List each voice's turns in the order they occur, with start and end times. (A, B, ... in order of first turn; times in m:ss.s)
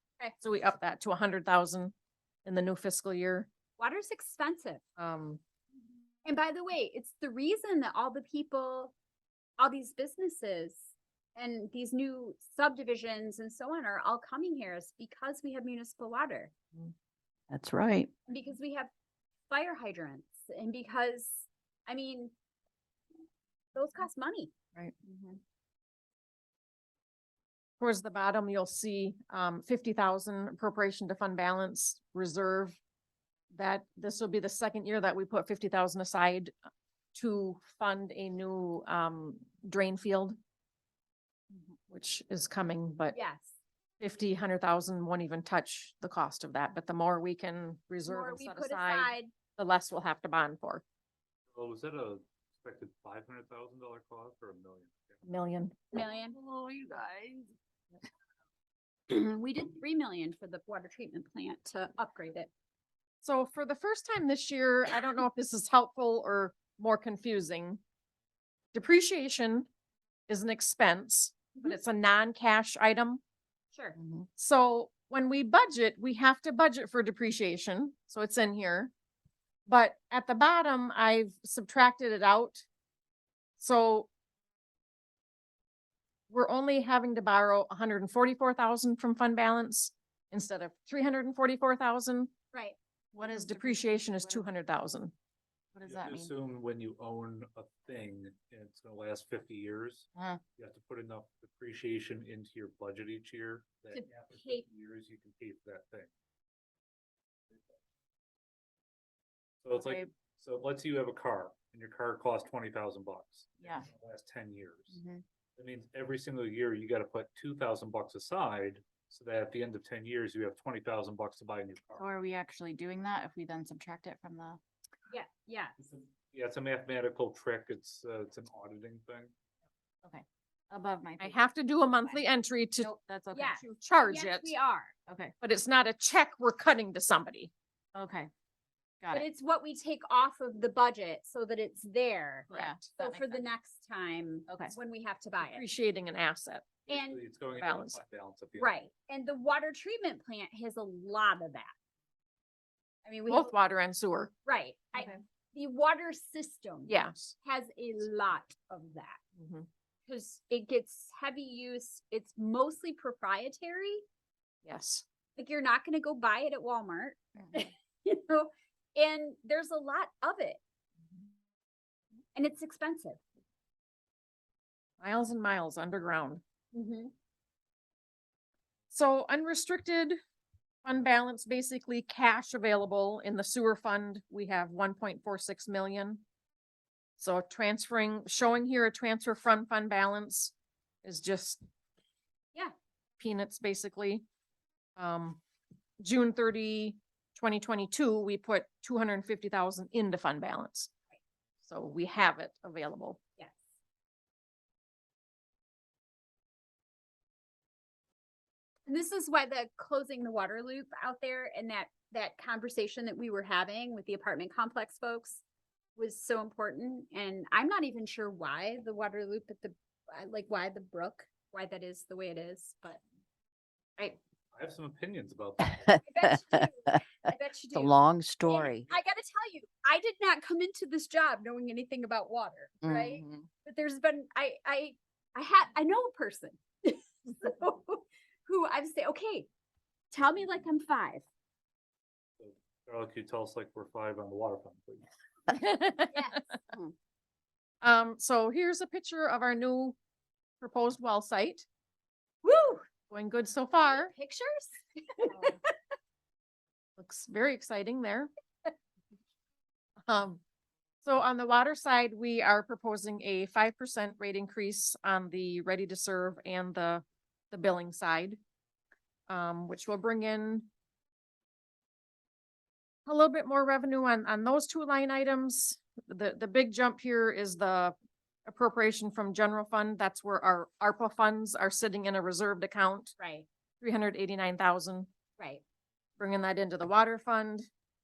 0:00.4-0:01.9 A
0:02.4-0:03.5 A
0:03.8-0:04.8 B
0:05.0-0:05.4 A
0:06.2-0:08.9 B
0:09.6-0:10.8 B
0:11.4-0:16.5 B
0:17.5-0:18.1 C
0:18.3-0:18.9 B
0:19.5-0:22.3 B
0:23.7-0:25.4 B
0:27.8-0:32.8 A
0:33.5-0:36.5 A
0:37.1-0:40.4 A
0:41.9-0:43.2 A
0:43.1-0:43.5 B
0:44.0-0:50.8 A
0:48.0-0:49.3 B
0:51.5-0:55.2 D
0:55.2-0:55.8 A
0:55.9-0:57.4 B
0:59.1-1:02.5 B
1:03.2-1:07.8 A
1:08.7-1:09.6 A
1:10.3-1:13.2 A
1:14.4-1:18.9 A
1:19.7-1:22.6 A
1:23.6-1:24.1 A
1:26.3-1:32.3 A
1:33.1-1:34.4 E
1:33.2-1:35.1 A
1:35.7-1:36.3 E
1:35.8-1:46.1 D
1:40.1-1:40.4 E
1:43.9-1:44.6 B
1:49.6-1:55.0 D
1:49.8-1:50.1 E
1:54.9-1:55.2 E
1:55.6-2:02.0 D
2:02.0-2:04.6 E
2:05.1-2:05.7 B
2:05.8-2:09.3 D
2:10.0-2:11.4 E
2:11.2-2:12.9 A
2:12.8-2:13.6 E
2:13.3-2:14.9 B
2:13.6-2:14.5 A
2:15.1-2:15.3 E
2:15.4-2:17.5 A
2:17.9-2:18.3 E
2:19.1-2:25.6 B
2:22.5-2:23.4 E
2:24.5-2:24.7 E
2:25.4-2:26.7 A
2:26.9-2:28.7 D
2:26.9-2:27.2 B
2:27.6-2:28.0 A
2:28.6-2:31.7 B
2:33.0-2:33.5 B
2:33.3-2:34.3 A
2:34.4-2:39.2 B
2:36.9-2:37.3 A
2:39.4-2:39.7 A
2:40.1-2:44.0 B
2:44.6-2:45.0 A
2:45.4-2:50.6 B
2:52.3-2:53.2 B
2:55.0-2:56.4 A
2:56.7-2:57.1 B
2:58.9-3:00.2 A
3:00.8-3:06.2 A
3:07.2-3:11.6 A
3:13.2-3:14.2 A
3:15.0-3:15.4 A
3:16.0-3:20.9 A
3:21.6-3:23.2 A
3:28.9-3:35.4 B
3:36.0-3:43.0 B
3:44.5-3:46.0 D
3:46.0-3:59.5 B
3:47.7-3:48.9 C
3:52.8-3:53.1 C
3:53.0-3:53.4 E
4:00.1-4:01.2 B
4:02.4-4:05.0 D
4:05.5-4:06.1 A
4:06.1-4:06.9 B
4:07.8-4:10.0 A
4:10.6-4:11.6 A
4:12.4-4:12.8 B
4:13.1-4:14.1 A
4:13.8-4:15.7 B
4:17.0-4:18.3 A
4:20.1-4:20.4 A
4:21.0-4:28.4 A
4:29.3-4:30.7 A
4:33.0-4:37.9 A
4:38.4-4:43.1 A
4:43.2-4:43.4 B
4:43.8-4:45.1 A
4:46.2-4:47.7 A